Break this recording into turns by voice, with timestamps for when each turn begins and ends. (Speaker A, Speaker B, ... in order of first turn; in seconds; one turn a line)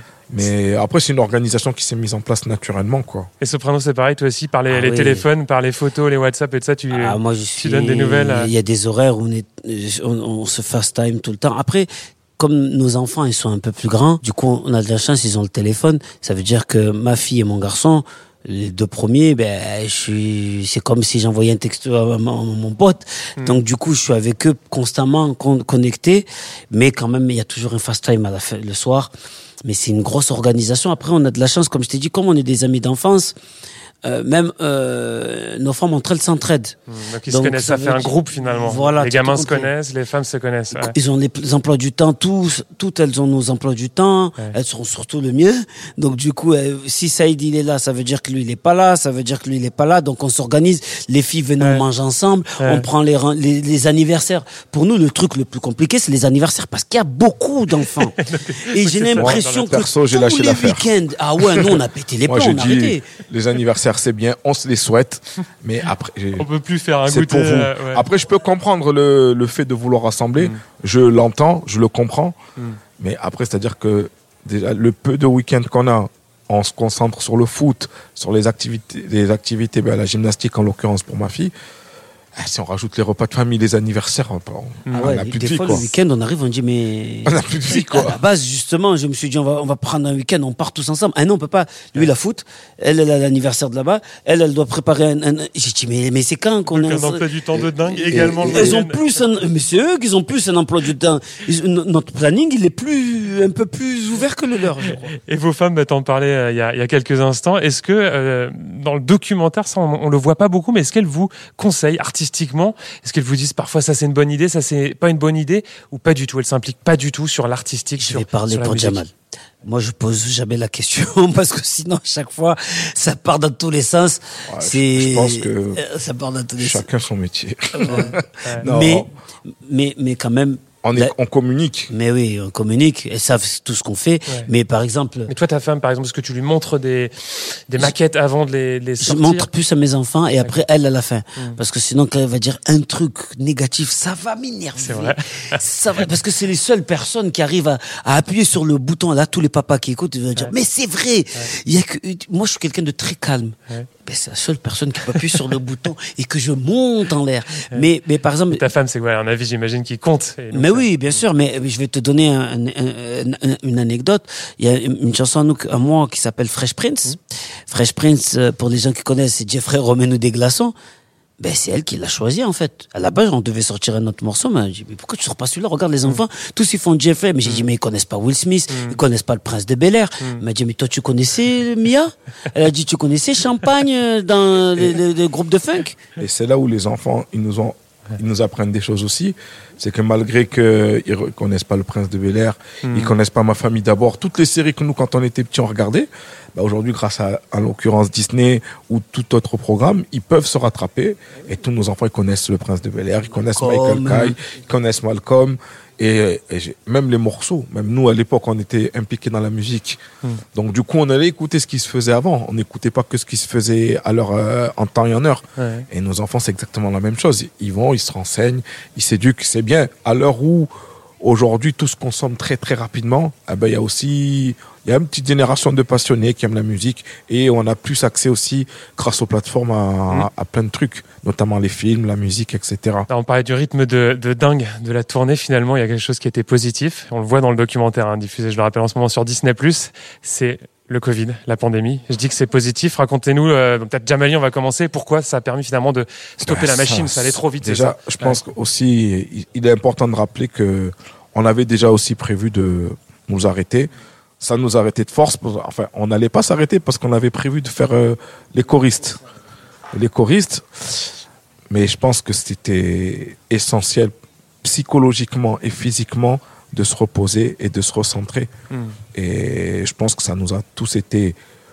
Speaker A: 0.3-3.3
Speaker B: 3.4-8.5
Speaker C: 4.7-5.2
Speaker C: 6.9-29.1
Speaker C: 29.6-33.4
Speaker C: 34.0-36.8
Speaker B: 36.9-40.9
Speaker C: 37.3-39.7
Speaker C: 40.7-63.0
Speaker B: 52.6-52.9
Speaker B: 57.8-59.7
Speaker A: 59.2-60.9
Speaker A: 62.2-66.5
Speaker B: 66.4-68.0
Speaker A: 67.0-72.3
Speaker A: 73.0-81.5
Speaker A: 82.3-85.9
Speaker C: 84.9-97.2
Speaker A: 87.2-88.2
Speaker B: 96.7-99.2
Speaker A: 97.6-98.8
Speaker C: 97.9-105.1
Speaker B: 105.1-119.0
Speaker C: 118.0-119.1
Speaker C: 119.6-126.9
Speaker A: 124.5-125.8
Speaker A: 126.6-129.1
Speaker C: 127.7-131.1
Speaker B: 127.9-128.7
Speaker A: 130.8-131.9
Speaker C: 131.9-135.3
Speaker B: 135.3-139.5
Speaker C: 139.0-158.6
Speaker B: 144.8-146.0
Speaker B: 158.5-161.1
Speaker C: 160.5-167.2
Speaker C: 167.7-170.7
Speaker C: 171.4-186.0
Speaker B: 178.7-179.0
Speaker A: 186.2-210.0
Speaker B: 192.8-193.1
Speaker C: 203.5-204.3
Speaker A: 210.5-220.7
Speaker B: 215.6-215.8
Speaker A: 221.2-233.1
Speaker B: 233.1-248.4
Speaker A: 246.4-253.9
Speaker A: 254.4-259.2
Speaker A: 259.9-261.1
Speaker A: 261.7-268.5
Speaker B: 268.7-268.9
Speaker A: 269.1-271.4